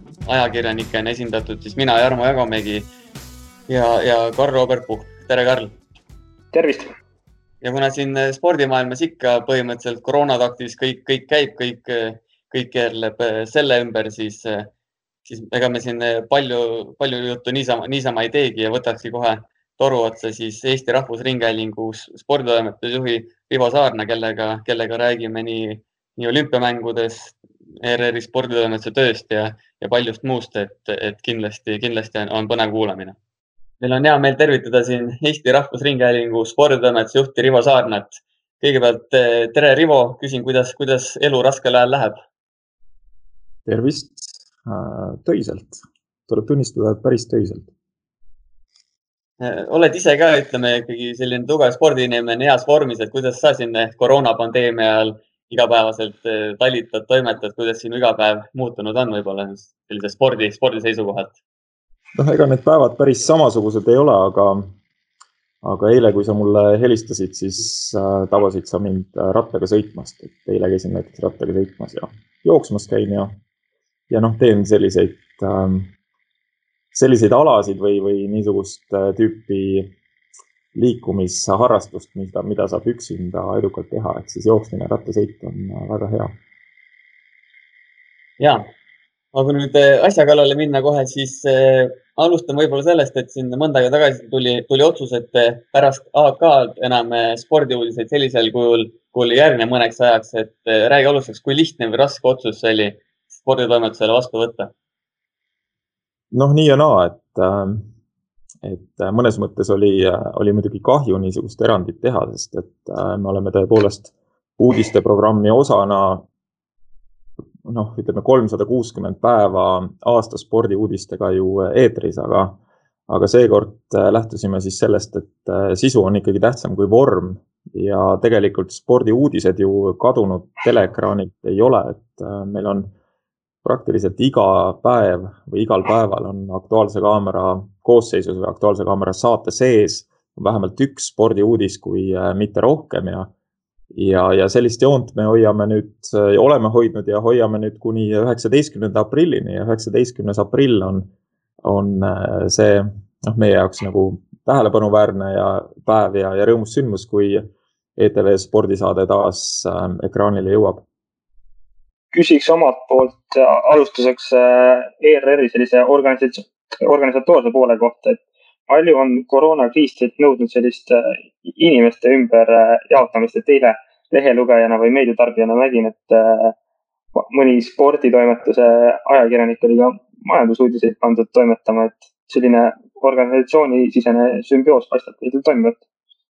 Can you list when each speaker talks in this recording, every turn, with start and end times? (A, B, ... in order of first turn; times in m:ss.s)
0:00.2-0:02.9 A
0:03.7-0:05.7 A
0:06.5-0:06.9 B
0:07.6-0:14.7 A
0:15.2-0:33.2 A
0:33.8-0:42.2 A
0:43.6-0:47.7 C
0:49.4-1:01.4 A
1:02.2-1:04.7 C
1:05.6-1:13.4 C
1:14.1-1:15.9 C
1:16.9-1:19.9 C
1:20.7-1:26.3 C
1:28.4-1:28.6 A
1:29.3-1:44.7 A
1:46.3-1:47.8 C
1:48.6-1:56.2 C
1:57.6-2:02.6 C
2:03.1-2:12.9 C
2:13.6-2:23.3 C
2:23.9-2:31.1 C
2:31.6-2:37.4 C
2:38.0-2:40.8 C
2:42.1-2:56.5 B
2:57.1-3:05.8 B